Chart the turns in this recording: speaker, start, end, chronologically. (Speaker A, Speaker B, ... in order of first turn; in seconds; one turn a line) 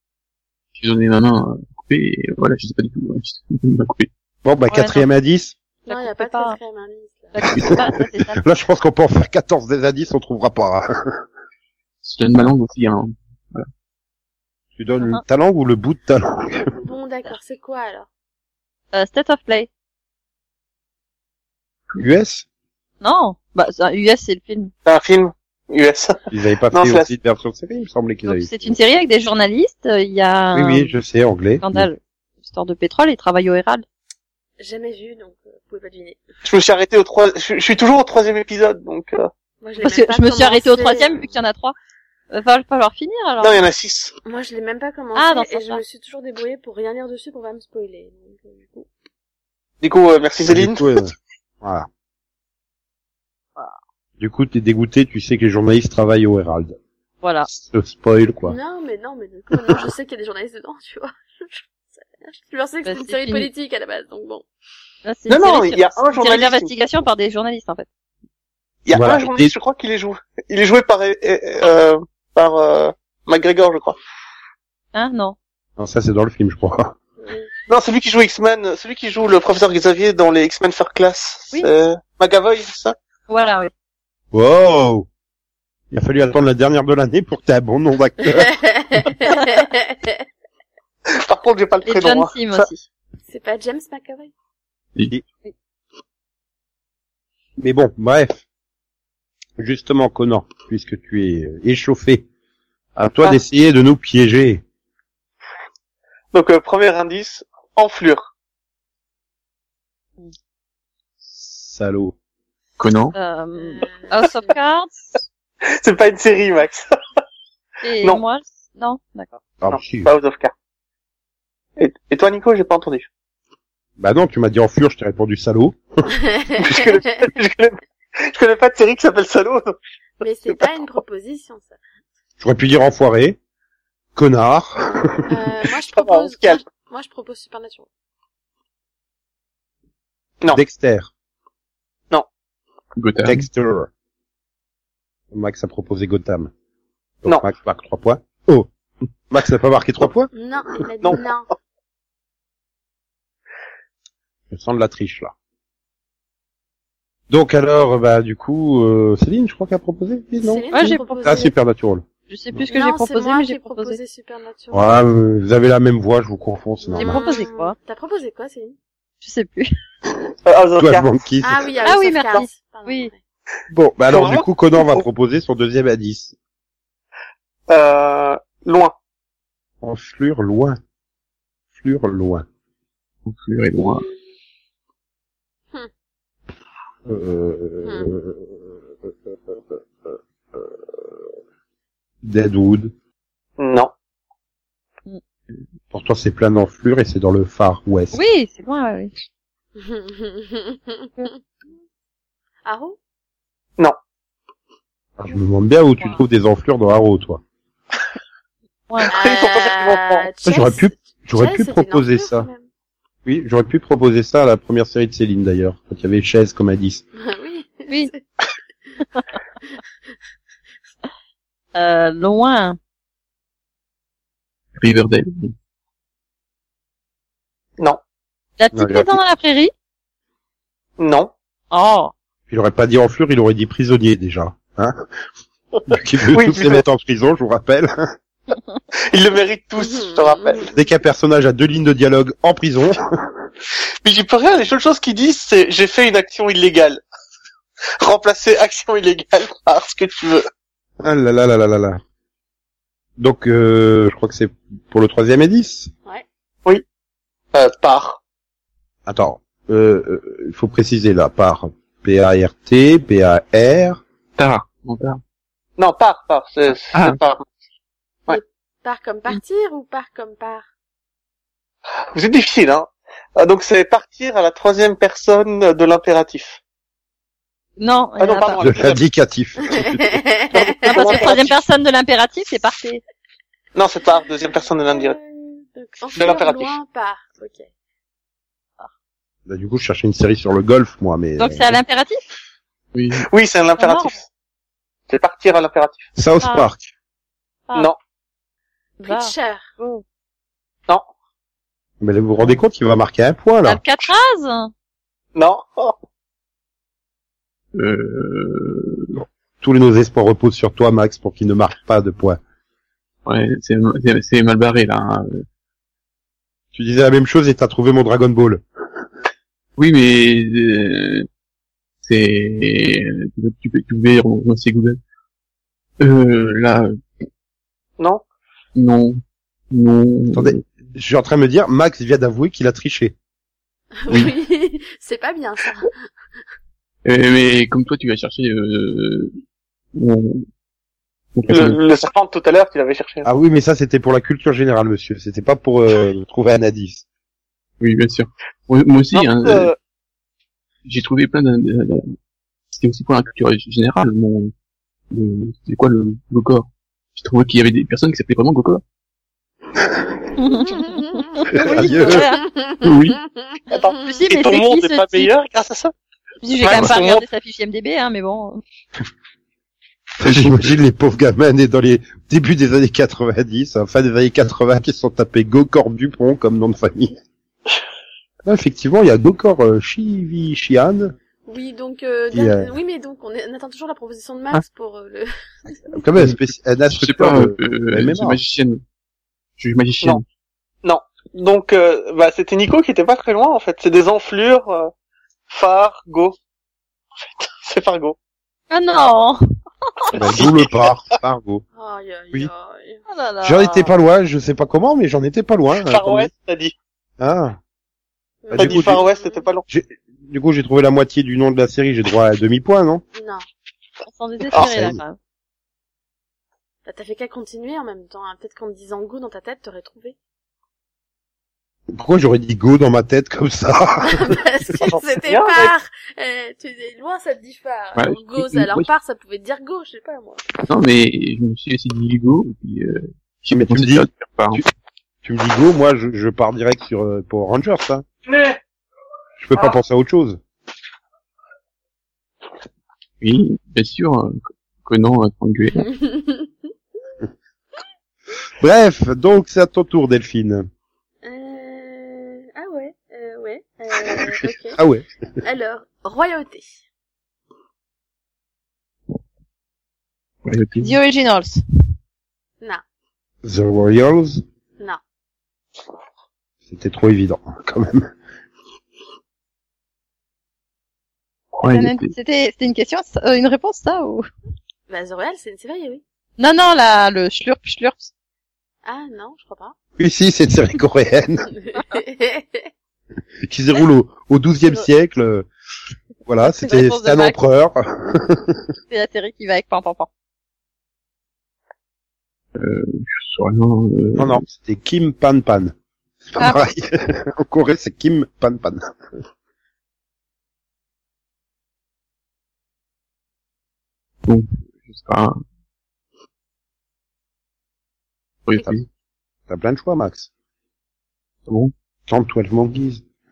Speaker A: 0.8-4.1
Speaker B: 4.4-5.5
Speaker C: 4.7-5.1
Speaker D: 5.9-7.3
Speaker C: 5.9-6.6
Speaker C: 7.3-8.4
Speaker B: 8.4-11.2
Speaker A: 12.0-13.7
Speaker B: 14.8-16.7
Speaker D: 16.8-18.1
Speaker C: 18.9-19.7
Speaker B: 22.0-22.4
Speaker C: 23.0-24.7
Speaker E: 24.9-26.2
Speaker B: 26.3-28.8
Speaker E: 26.7-27.1
Speaker C: 28.3-30.9
Speaker B: 30.5-31.9
Speaker C: 31.6-33.9
Speaker D: 34.6-36.2
Speaker E: 36.5-39.3
Speaker D: 39.6-41.3
Speaker C: 39.8-41.8
Speaker C: 42.3-43.6
Speaker E: 43.4-44.1
Speaker D: 44.2-48.9
Speaker C: 45.2-45.8
Speaker E: 49.8-51.0
Speaker B: 50.5-51.9
Speaker B: 54.2-56.8
Speaker C: 57.2-57.5
Speaker B: 57.5-58.6
Speaker D: 58.4-64.5
Speaker C: 62.9-63.5
Speaker C: 65.0-67.9
Speaker E: 65.3-66.7
Speaker E: 68.9-74.0
Speaker B: 68.9-69.5
Speaker C: 74.9-75.4
Speaker B: 75.8-77.0
Speaker D: 77.2-77.5
Speaker E: 77.7-83.0
Speaker C: 83.3-83.7
Speaker B: 84.3-85.1
Speaker B: 85.9-88.5
Speaker D: 88.3-90.2
Speaker E: 91.1-92.7
Speaker C: 91.8-92.9
Speaker D: 93.3-94.3
Speaker B: 97.6-98.4
Speaker B: 99.6-102.3
Speaker B: 103.0-104.6
Speaker E: 106.3-108.3
Speaker B: 111.3-112.2
Speaker A: 112.8-113.1
Speaker C: 113.1-115.2
Speaker D: 113.6-114.6
Speaker E: 115.6-116.9
Speaker C: 117.8-119.3
Speaker B: 119.6-120.1
Speaker E: 119.7-120.5
Speaker E: 121.8-123.1
Speaker B: 124.0-125.8
Speaker D: 126.2-127.2
Speaker E: 126.6-129.8
Speaker D: 130.2-131.8
Speaker B: 132.4-133.4
Speaker B: 134.2-135.3
Speaker D: 135.3-137.9
Speaker E: 135.9-136.6
Speaker B: 140.5-141.1
Speaker A: 143.0-143.5
Speaker B: 143.2-143.9
Speaker B: 145.3-146.5
Speaker B: 147.2-148.7
Speaker B: 149.3-150.3
Speaker D: 150.3-151.5
Speaker B: 154.5-155.3
Speaker B: 157.3-162.6
Speaker D: 160.4-161.5
Speaker C: 160.7-161.5
Speaker C: 162.3-164.0
Speaker D: 162.7-165.0
Speaker B: 164.7-167.3
Speaker D: 166.8-168.8
Speaker C: 167.0-167.8
Speaker C: 169.2-169.7
Speaker E: 170.5-171.1
Speaker B: 170.8-171.7
Speaker D: 171.4-173.2
Speaker C: 171.8-173.1
Speaker B: 173.7-176.3
Speaker E: 174.1-175.0
Speaker E: 177.7-178.9
Speaker B: 179.8-180.8
Speaker B: 181.8-182.5
Speaker A: 183.3-184.1
Speaker B: 187.1-188.7
Speaker D: 187.8-188.1
Speaker B: 189.5-190.7
Speaker B: 192.2-192.9
Speaker E: 193.6-193.9
Speaker B: 195.9-198.2
Speaker C: 198.1-199.1
Speaker D: 199.8-201.4
Speaker D: 202.7-203.0
Speaker B: 205.2-207.4
Speaker E: 209.1-210.3
Speaker D: 209.1-212.7
Speaker B: 210.4-212.5
Speaker B: 213.3-217.0
Speaker D: 217.2-218.2
Speaker C: 221.8-222.8
Speaker A: 224.8-225.5
Speaker C: 228.6-229.7
Speaker B: 228.7-229.2
Speaker E: 231.0-231.3
Speaker C: 231.7-232.1
Speaker B: 232.5-235.0
Speaker B: 235.9-238.1
Speaker E: 236.3-236.8
Speaker E: 239.1-240.7
Speaker D: 239.8-240.9
Speaker B: 240.7-243.0
Speaker E: 244.0-247.0
Speaker E: 248.0-250.5
Speaker B: 251.0-252.0
Speaker B: 253.2-255.9
Speaker E: 257.5-258.2
Speaker B: 259.1-264.0
Speaker A: 264.4-265.2
Speaker E: 265.8-267.5
Speaker D: 268.3-270.7
Speaker E: 272.1-276.6
Speaker C: 277.8-278.6
Speaker E: 278.2-279.0
Speaker B: 278.6-280.2
Speaker D: 279.7-281.2
Speaker E: 280.6-281.6
Speaker C: 280.9-283.0
Speaker E: 283.8-285.2
Speaker D: 284.9-287.7
Speaker E: 286.2-286.8
Speaker B: 289.5-291.8
Speaker C: 291.4-292.2
Speaker A: 292.9-293.3
Speaker E: 293.2-294.2
Speaker C: 293.8-294.1
Speaker E: 295.1-296.1
Speaker B: 296.2-296.9
Speaker C: 296.4-296.7
Speaker C: 299.0-300.0
Speaker D: 299.0-299.7
Speaker B: 302.0-304.1
Speaker C: 303.6-304.7
Speaker E: 305.4-306.0
Speaker A: 307.7-309.2
Speaker B: 309.6-312.4
Speaker A: 313.2-315.4
Speaker B: 316.7-318.6
Speaker A: 319.8-321.3
Speaker A: 322.0-325.0
Speaker A: 326.0-327.2
Speaker A: 328.8-330.6
Speaker B: 330.3-333.1
Speaker D: 334.0-336.0
Speaker A: 337.1-339.4
Speaker A: 339.9-340.5
Speaker A: 341.4-341.8
Speaker E: 341.5-343.3
Speaker B: 343.2-347.0
Speaker A: 347.8-349.7
Speaker E: 349.1-349.8
Speaker A: 350.9-352.2
Speaker A: 352.7-354.5
Speaker A: 355.1-358.8
Speaker B: 359.8-360.1
Speaker C: 360.4-362.4
Speaker D: 360.5-363.6
Speaker B: 361.5-362.3
Speaker A: 362.8-363.2
Speaker E: 363.7-365.9
Speaker C: 364.0-365.3
Speaker C: 366.4-368.6
Speaker E: 366.6-367.2
Speaker B: 370.2-377.2
Speaker A: 370.2-370.7
Speaker B: 378.4-381.1
Speaker D: 381.5-386.0
Speaker B: 382.3-382.7
Speaker B: 385.9-388.4
Speaker A: 386.2-388.8
Speaker A: 389.6-390.2
Speaker E: 390.8-394.9
Speaker E: 395.5-396.4
Speaker E: 397.4-398.2
Speaker C: 398.7-399.4
Speaker B: 400.1-401.6
Speaker E: 400.2-400.9
Speaker D: 401.8-403.0
Speaker C: 403.1-403.9
Speaker B: 403.4-406.3
Speaker E: 405.8-406.7
Speaker B: 407.2-407.6
Speaker D: 408.4-409.5
Speaker B: 408.5-409.0
Speaker E: 408.6-409.7
Speaker B: 409.7-413.0
Speaker D: 413.1-413.4
Speaker C: 414.1-415.2
Speaker B: 414.5-415.0
Speaker D: 416.9-420.2
Speaker B: 421.9-424.4
Speaker D: 424.1-430.4
Speaker E: 424.8-425.7
Speaker A: 428.0-428.9
Speaker A: 430.7-434.6
Speaker B: 433.5-434.7
Speaker B: 435.2-438.1
Speaker E: 438.3-438.6
Speaker B: 439.4-440.4
Speaker A: 443.2-445.9
Speaker D: 445.8-446.5
Speaker B: 448.6-450.7
Speaker D: 451.2-454.8
Speaker B: 454.0-455.1
Speaker D: 455.4-456.8
Speaker A: 460.4-460.9
Speaker C: 460.8-461.6
Speaker B: 463.4-464.4
Speaker B: 466.7-468.1
Speaker A: 471.5-472.1
Speaker C: 471.7-474.3
Speaker D: 474.9-476.0
Speaker C: 476.4-478.1
Speaker D: 478.8-479.8
Speaker B: 480.0-481.5
Speaker D: 481.5-482.7
Speaker B: 483.4-485.5
Speaker B: 486.3-488.6
Speaker C: 486.4-487.4
Speaker C: 488.9-490.1
Speaker A: 492.6-494.4
Speaker B: 494.2-495.8
Speaker B: 496.3-499.0
Speaker C: 496.4-496.6
Speaker A: 504.3-505.4
Speaker A: 508.5-508.9
Speaker B: 509.5-510.3
Speaker A: 511.5-511.7
Speaker B: 512.1-513.0